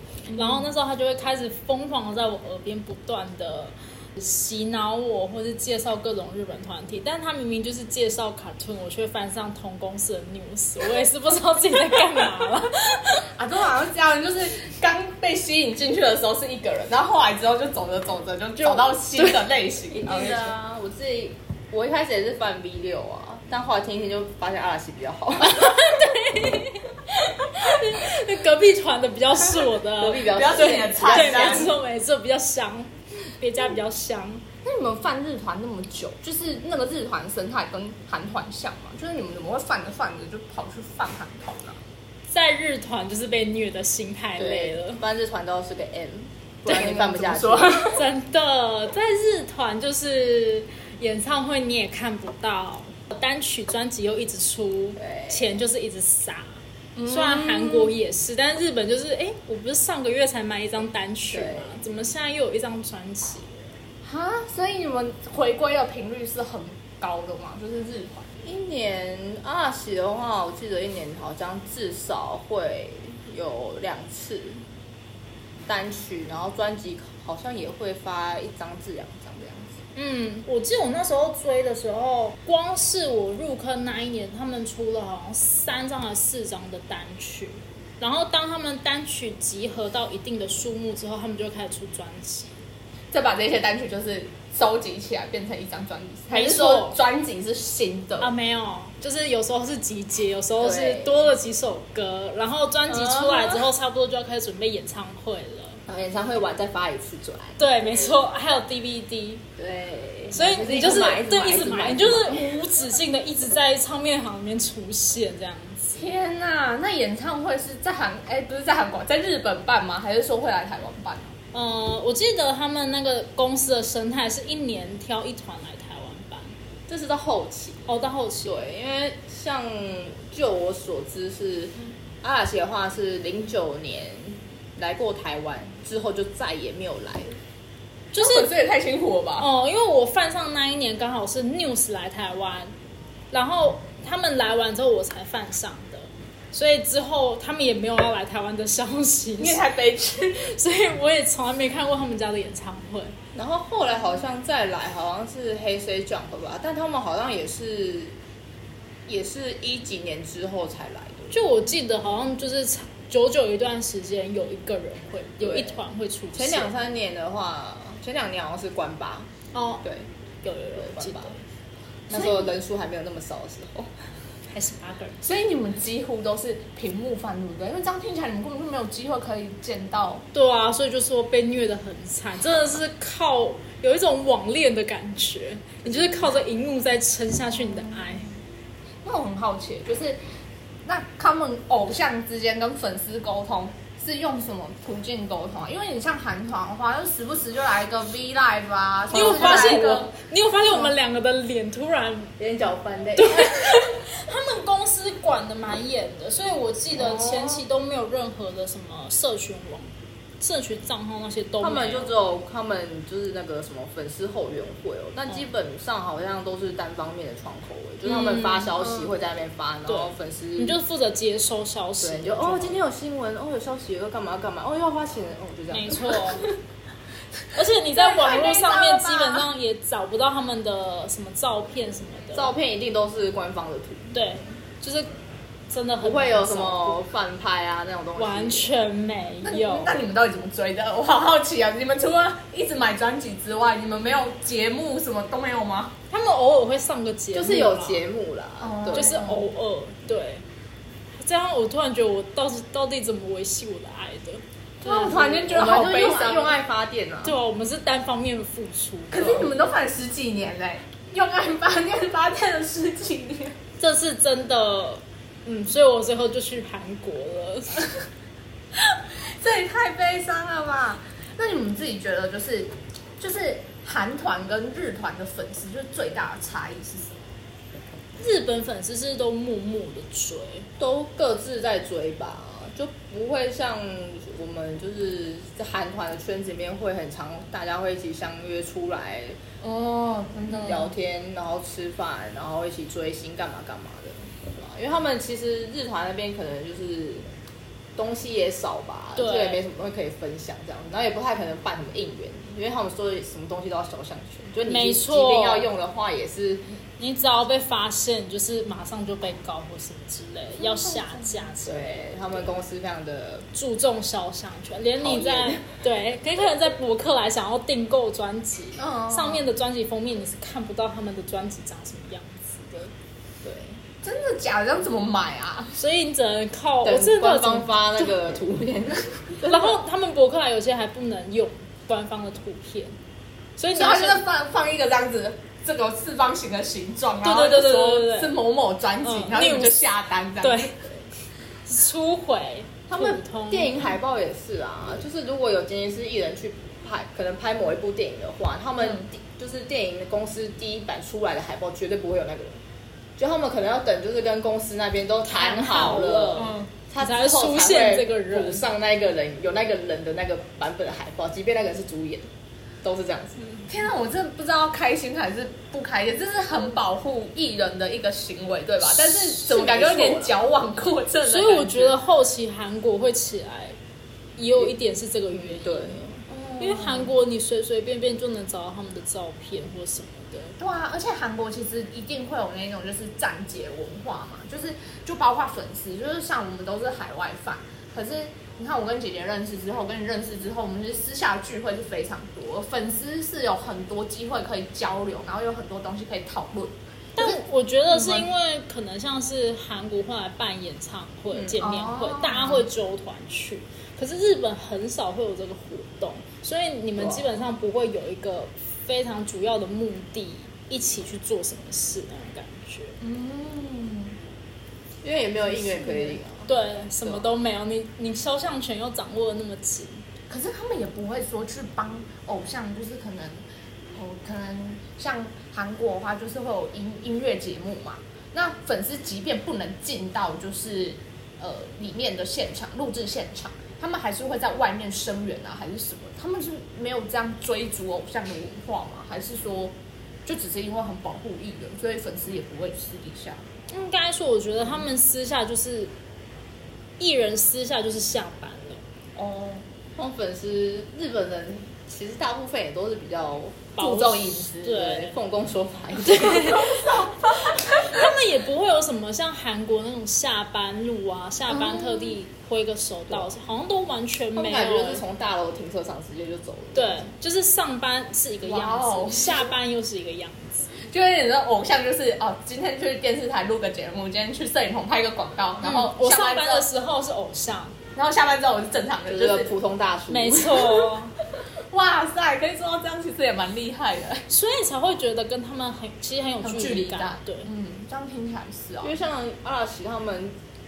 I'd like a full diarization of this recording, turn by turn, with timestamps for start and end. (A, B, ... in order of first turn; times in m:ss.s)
0:00.3-0:00.7 A
0:00.4-0:13.3 B
0:11.9-0:12.2 A
0:13.3-0:20.5 A
0:18.6-0:19.4 B
0:19.9-0:25.8 C
0:25.4-0:34.4 B
0:30.0-0:31.8 C
0:30.3-0:31.8 A
0:34.6-0:41.8 A
0:42.3-0:45.0 B
0:44.4-0:47.9 C
0:46.7-0:48.0 A
0:47.9-1:03.7 B
0:55.0-0:55.6 C
0:57.0-0:57.9 A
1:01.3-1:01.8 C
1:04.0-1:08.4 A
1:08.4-1:14.6 C
1:15.7-1:19.8 C
1:20.0-1:32.6 B
1:33.1-1:38.3 A
1:36.3-1:37.0 B
1:38.2-1:45.8 B
1:40.6-1:41.3 C
1:42.9-1:43.6 A
1:45.9-1:47.6 C
1:47.6-1:49.4 B
1:49.6-1:52.6 C
1:50.3-1:56.1 B
1:56.0-2:01.3 A
2:01.5-2:06.5 B
2:06.9-2:07.9 C
2:07.9-2:08.6 B
2:08.4-2:17.4 C
2:18.1-2:18.5 B
2:18.2-2:19.5 A
2:19.4-2:22.7 B
2:23.3-2:29.7 B
2:29.4-2:30.5 A
2:30.4-2:33.2 B
2:33.4-2:38.2 C
2:39.1-2:41.4 C
2:41.3-2:46.7 B
2:45.4-2:45.8 C
2:46.3-2:49.3 C
2:49.5-2:49.8 B
2:50.4-2:51.4 B
2:50.8-2:51.3 C
2:52.1-2:53.9 C
2:54.5-2:55.2 B
2:55.2-3:00.2 A
3:00.3-3:08.3 B
3:07.8-3:08.0 A
3:09.0-3:10.2 A
3:10.8-3:20.1 A
3:19.1-3:22.3 B
3:19.2-3:19.9 C
3:22.4-3:23.9 C
3:23.2-3:29.9 B
3:27.0-3:27.6 C
3:30.4-3:32.1 B
3:31.6-3:40.8 C
3:38.0-3:38.8 B
3:39.9-3:42.8 B
3:42.0-3:46.2 C
3:45.7-3:46.5 B
3:47.6-3:52.5 B
3:47.9-3:49.5 A
3:52.3-3:54.2 C
3:54.1-3:55.1 B
3:55.7-3:57.0 B
3:56.0-3:58.7 C
3:58.2-4:00.0 B
3:59.4-4:06.0 A
4:06.1-4:08.0 B
4:07.3-4:09.2 C
4:08.6-4:09.5 A
4:08.9-4:10.4 B
4:11.2-4:16.3 B
4:14.8-4:16.6 A
4:15.5-4:17.4 C
4:17.2-4:19.6 B
4:19.1-4:23.6 A
4:23.8-4:27.8 B
4:28.9-4:37.2 A
4:38.2-4:40.7 B
4:40.8-4:49.4 C
4:49.6-4:50.9 A
4:50.5-4:57.2 C
4:58.0-5:06.6 C
4:59.2-4:59.6 B
5:04.7-5:05.7 B
5:07.0-5:12.5 B
5:10.6-5:11.5 A
5:11.6-5:13.5 C
5:13.5-5:22.9 B
5:15.0-5:15.6 C
5:18.8-5:19.4 A
5:23.4-5:23.8 C
5:24.0-5:25.7 A
5:25.8-5:28.2 B
5:26.8-5:29.8 C
5:29.4-5:33.0 B
5:33.6-5:34.2 B
5:33.7-5:40.7 A
5:37.2-5:38.4 B
5:39.0-5:39.9 B
5:40.4-5:40.8 B
5:41.7-5:44.0 B
5:42.9-5:52.6 C
5:53.2-6:02.3 C
5:55.3-5:58.6 B
5:56.4-5:56.7 A
6:02.8-6:03.5 C
6:03.7-6:12.0 A
6:09.3-6:10.3 C
6:11.2-6:13.8 B
6:14.4-6:20.6 B
6:15.3-6:16.1 C
6:16.3-6:17.1 A
6:20.6-6:38.3 A
6:37.2-6:53.0 B
6:41.3-6:41.6 C
6:41.6-6:42.7 A
6:47.0-6:47.3 C
6:53.0-6:54.2 A
6:55.0-6:56.5 C
6:55.5-6:56.2 A
6:56.5-7:00.0 B
7:00.3-7:03.4 A
7:04.0-7:19.7 A
7:20.3-7:23.5 A
7:23.7-7:25.9 B
7:27.0-7:28.8 B
7:29.2-7:29.6 A
7:30.0-7:33.8 C
7:33.8-7:35.2 B
7:33.8-7:34.8 A
7:34.7-7:36.8 C
7:36.0-7:45.0 B
7:36.6-7:38.1 A
7:41.5-7:42.2 A
7:44.4-7:47.0 C
7:46.7-7:50.7 B
7:48.4-7:49.5 A
7:50.8-7:56.7 A
7:55.6-7:57.8 B
7:58.0-7:59.5 A
7:59.1-8:00.8 C
8:00.1-8:01.1 B
8:01.7-8:04.2 A
8:04.3-8:07.5 B
8:06.4-8:08.9 A
8:08.8-8:10.3 C